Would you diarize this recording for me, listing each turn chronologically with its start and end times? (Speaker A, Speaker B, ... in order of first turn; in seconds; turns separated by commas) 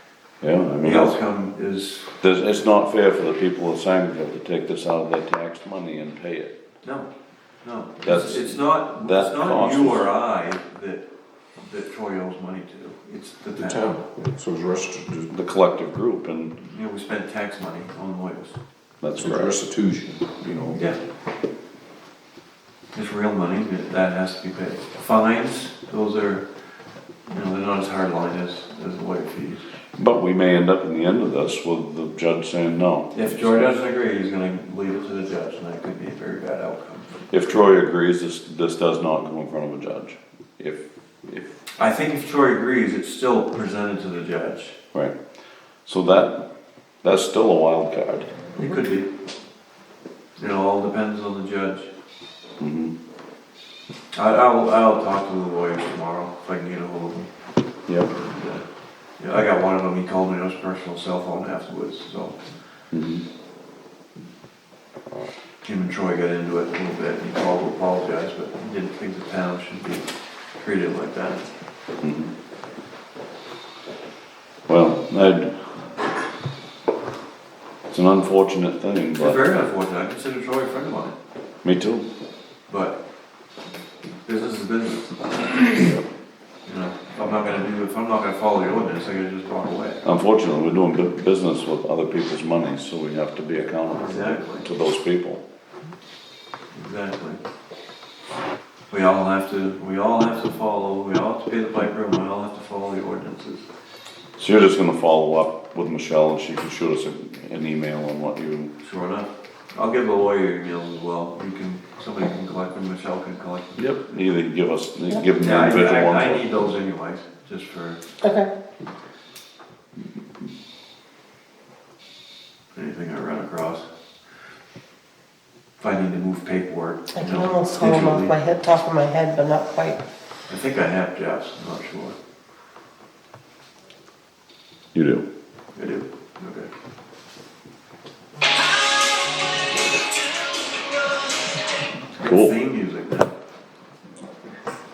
Speaker A: 0.4-1.2, Speaker B: 0.8-2.1, Speaker A: 2.2-6.5, Speaker B: 6.8-7.1, Speaker B: 7.6-14.0, Speaker A: 8.0-10.1, Speaker C: 13.6-15.3, Speaker A: 15.3-16.6, Speaker B: 16.6-18.6, Speaker A: 19.0-19.6, Speaker C: 19.1-20.8, Speaker B: 20.7-21.0, Speaker B: 22.9-26.5, Speaker B: 27.2-29.6, Speaker A: 29.9-33.6, Speaker B: 33.1-37.2, Speaker A: 37.3-41.6, Speaker B: 41.8-44.8, Speaker A: 45.8-46.5, Speaker A: 47.0-48.3, Speaker B: 48.5-49.1, Speaker B: 50.4-51.9, Speaker A: 52.6-52.9, Speaker B: 54.1-57.3, Speaker A: 57.9-58.1, Speaker B: 58.1-58.6, Speaker B: 59.2-62.5, Speaker A: 62.9-63.2, Speaker B: 65.6-71.5, Speaker A: 72.0-72.3, Speaker A: 74.7-75.7, Speaker A: 77.9-79.4, Speaker B: 79.2-81.2, Speaker A: 81.6-82.1, Speaker B: 82.7-83.0, Speaker B: 84.2-85.9, Speaker A: 85.8-86.0, Speaker B: 86.7-90.0, Speaker A: 90.0-95.4, Speaker B: 94.0-94.7, Speaker B: 96.7-97.4, Speaker B: 98.9-103.7, Speaker A: 104.4-108.7, Speaker B: 108.8-113.9, Speaker A: 113.8-116.7, Speaker B: 115.4-118.0, Speaker D: 118.2-118.5, Speaker B: 122.8-123.9, Speaker B: 125.8-128.3, Speaker D: 127.1-130.0, Speaker B: 130.5-132.2, Speaker A: 134.9-135.2, Speaker B: 135.8-136.7, Speaker B: 142.2-143.3, Speaker A: 142.2-142.6